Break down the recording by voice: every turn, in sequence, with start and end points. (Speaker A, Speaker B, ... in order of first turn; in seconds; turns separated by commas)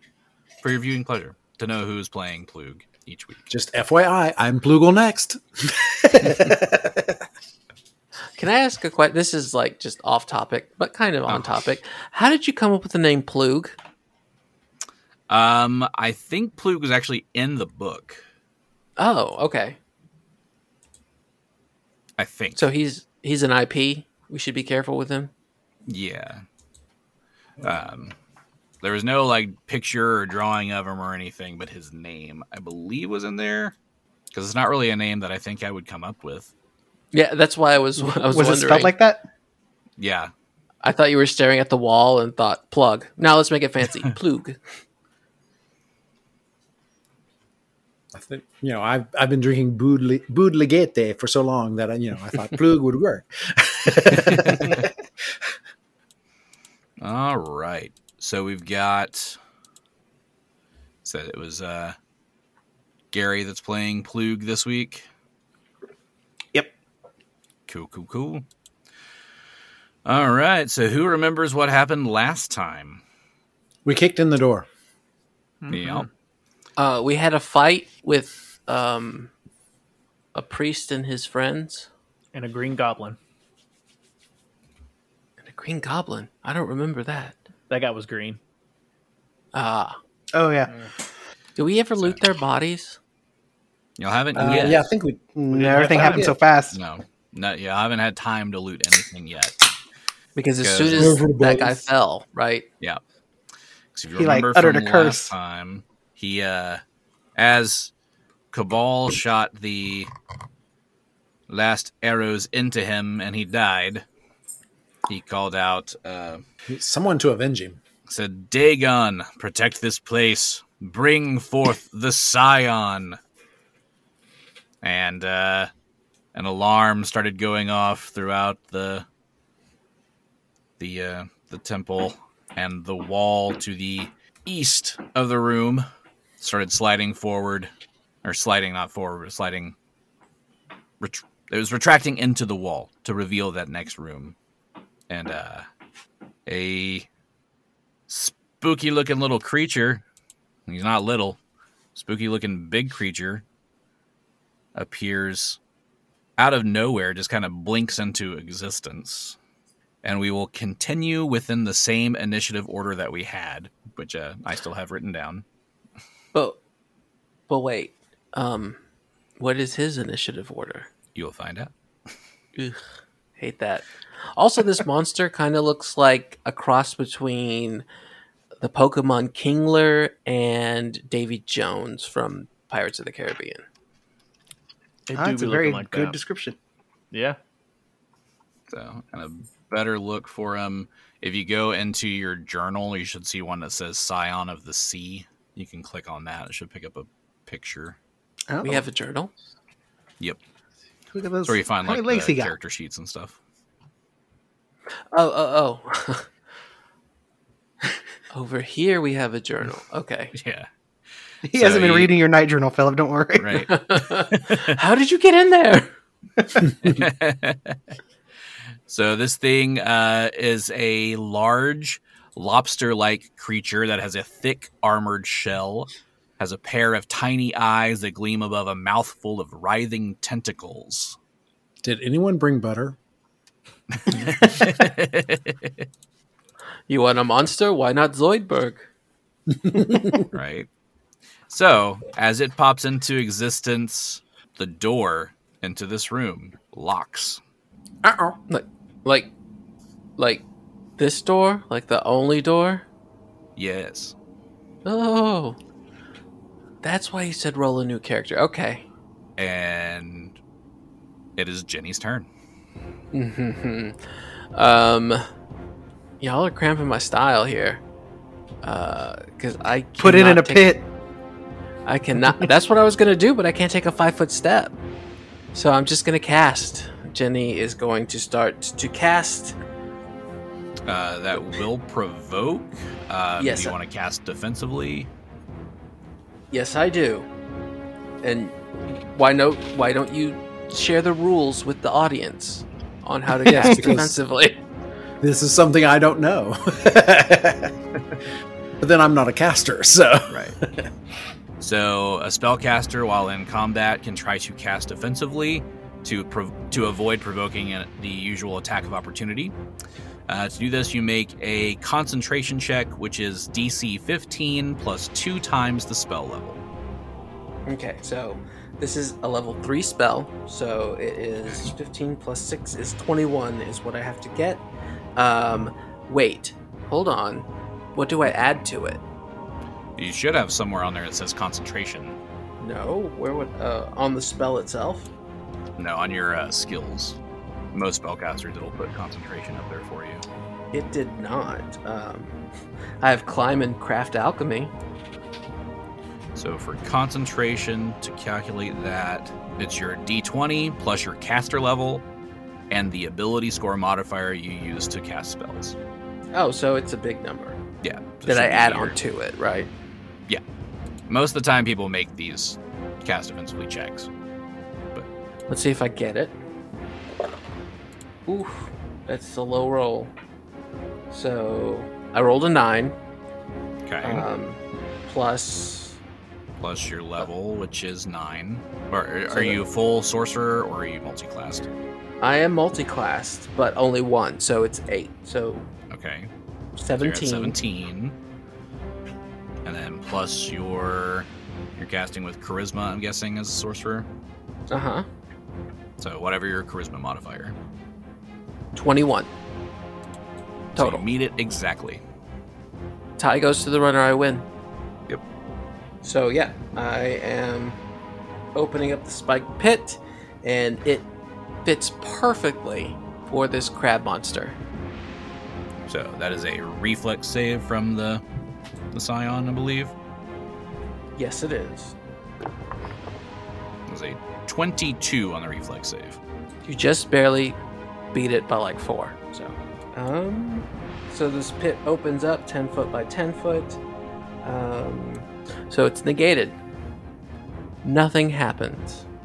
Speaker A: 0.6-3.4, Speaker B: 3.5-7.2, Speaker C: 8.4-13.8, Speaker A: 15.3-18.2, Speaker C: 19.0-19.8, Speaker A: 22.2-22.7, Speaker C: 22.6-25.3, Speaker A: 25.9-26.4, Speaker A: 27.6-28.1, Speaker A: 28.8-33.8, Speaker A: 34.3-36.5, Speaker C: 37.1-39.0, Speaker D: 38.0-39.2, Speaker A: 40.0-40.3, Speaker C: 40.8-44.6, Speaker B: 48.1-54.9, Speaker A: 57.0-59.4, Speaker A: 61.0-62.0, Speaker A: 63.1-65.1, Speaker A: 67.7-68.5, Speaker A: 70.0-73.0, Speaker B: 73.8-74.7, Speaker E: 75.6-76.1, Speaker A: 75.7-76.1, Speaker C: 76.8-79.3, Speaker C: 80.3-81.9, Speaker E: 82.3-83.2, Speaker C: 85.4-87.4, Speaker E: 87.7-88.4, Speaker C: 89.5-90.0, Speaker D: 90.3-90.7, Speaker C: 91.6-93.0, Speaker A: 94.0-94.9, Speaker B: 94.3-96.4, Speaker D: 95.3-96.8, Speaker A: 96.7-99.6, Speaker C: 100.4-102.7, Speaker A: 100.6-101.2, Speaker B: 100.9-101.9, Speaker A: 103.9-106.8, Speaker D: 104.2-105.3, Speaker A: 107.4-107.9, Speaker A: 108.5-110.1, Speaker A: 111.5-114.0, Speaker A: 115.1-116.4, Speaker B: 116.7-117.8, Speaker A: 118.1-123.2, Speaker A: 124.8-125.7, Speaker A: 126.3-129.1, Speaker A: 130.8-135.9, Speaker A: 136.4-137.7, Speaker A: 138.2-139.8, Speaker A: 141.0-144.4, Speaker A: 145.1-145.7, Speaker A: 146.5-147.1, Speaker A: 148.1-150.0, Speaker A: 150.7-151.4, Speaker A: 151.9-153.4, Speaker A: 154.8-155.6, Speaker A: 156.4-159.4, Speaker A: 160.0-165.4, Speaker C: 167.5-168.8, Speaker C: 169.4-170.9, Speaker A: 171.2-171.7, Speaker C: 173.4-177.8, Speaker C: 178.6-183.6, Speaker E: 185.1-186.2, Speaker D: 185.1-186.6, Speaker E: 187.1-187.4, Speaker A: 188.7-198.0, Speaker D: 198.5-198.9, Speaker C: 198.6-199.3, Speaker D: 201.1-202.5, Speaker A: 201.4-203.4, Speaker C: 205.1-206.3, Speaker C: 208.3-210.3, Speaker A: 210.3-210.7, Speaker D: 211.4-213.7, Speaker A: 211.5-212.2, Speaker A: 213.4-214.7, Speaker C: 213.7-215.9, Speaker A: 216.8-217.8, Speaker A: 218.9-231.2, Speaker B: 231.8-233.0, Speaker A: 234.0-235.8, Speaker C: 236.9-238.9, Speaker B: 239.6-240.1, Speaker A: 240.3-240.7, Speaker A: 241.5-247.4, Speaker B: 248.0-248.4, Speaker C: 248.5-249.3, Speaker C: 250.2-250.4, Speaker C: 251.0-252.8, Speaker A: 253.6-254.2, Speaker C: 254.8-255.6, Speaker C: 256.8-258.9, Speaker A: 259.4-260.4, Speaker A: 261.4-262.3, Speaker C: 263.1-264.0, Speaker C: 264.5-265.3, Speaker C: 266.2-267.8, Speaker C: 268.6-270.8, Speaker D: 270.0-270.8, Speaker C: 271.9-274.8, Speaker C: 275.5-279.6, Speaker A: 280.9-285.1, Speaker C: 283.4-283.8, Speaker C: 286.5-287.3, Speaker C: 288.2-294.6, Speaker B: 293.4-294.2, Speaker B: 295.2-297.7, Speaker B: 298.8-300.9, Speaker A: 301.6-309.6, Speaker A: 310.3-316.6, Speaker C: 317.7-324.6, Speaker C: 325.2-329.0, Speaker A: 330.0-332.2, Speaker C: 332.6-335.1, Speaker A: 335.8-337.2, Speaker A: 337.7-340.2, Speaker C: 340.7-342.4, Speaker C: 343.0-344.7, Speaker A: 346.4-352.1, Speaker A: 352.7-355.8, Speaker C: 356.3-357.6, Speaker A: 357.8-359.0, Speaker C: 358.3-359.7, Speaker A: 361.1-364.1, Speaker C: 365.5-366.4, Speaker C: 368.3-370.1, Speaker C: 371.1-372.9, Speaker A: 373.9-374.3, Speaker C: 374.0-376.0, Speaker A: 376.6-381.7, Speaker C: 379.3-379.6, Speaker C: 382.2-385.7, Speaker A: 385.9-386.3, Speaker C: 386.8-387.6, Speaker A: 387.0-388.2, Speaker A: 389.6-394.1, Speaker C: 394.7-395.1, Speaker A: 396.0-397.6, Speaker C: 398.8-399.3, Speaker A: 400.8-402.0, Speaker C: 400.8-401.0, Speaker C: 403.2-404.5, Speaker C: 406.0-407.8, Speaker C: 408.6-411.1, Speaker C: 411.6-414.6, Speaker A: 415.9-418.2, Speaker A: 418.9-419.9, Speaker C: 421.2-421.9, Speaker A: 423.9-426.2, Speaker C: 426.6-427.6, Speaker C: 428.1-433.8, Speaker C: 434.4-436.6, Speaker C: 437.8-439.0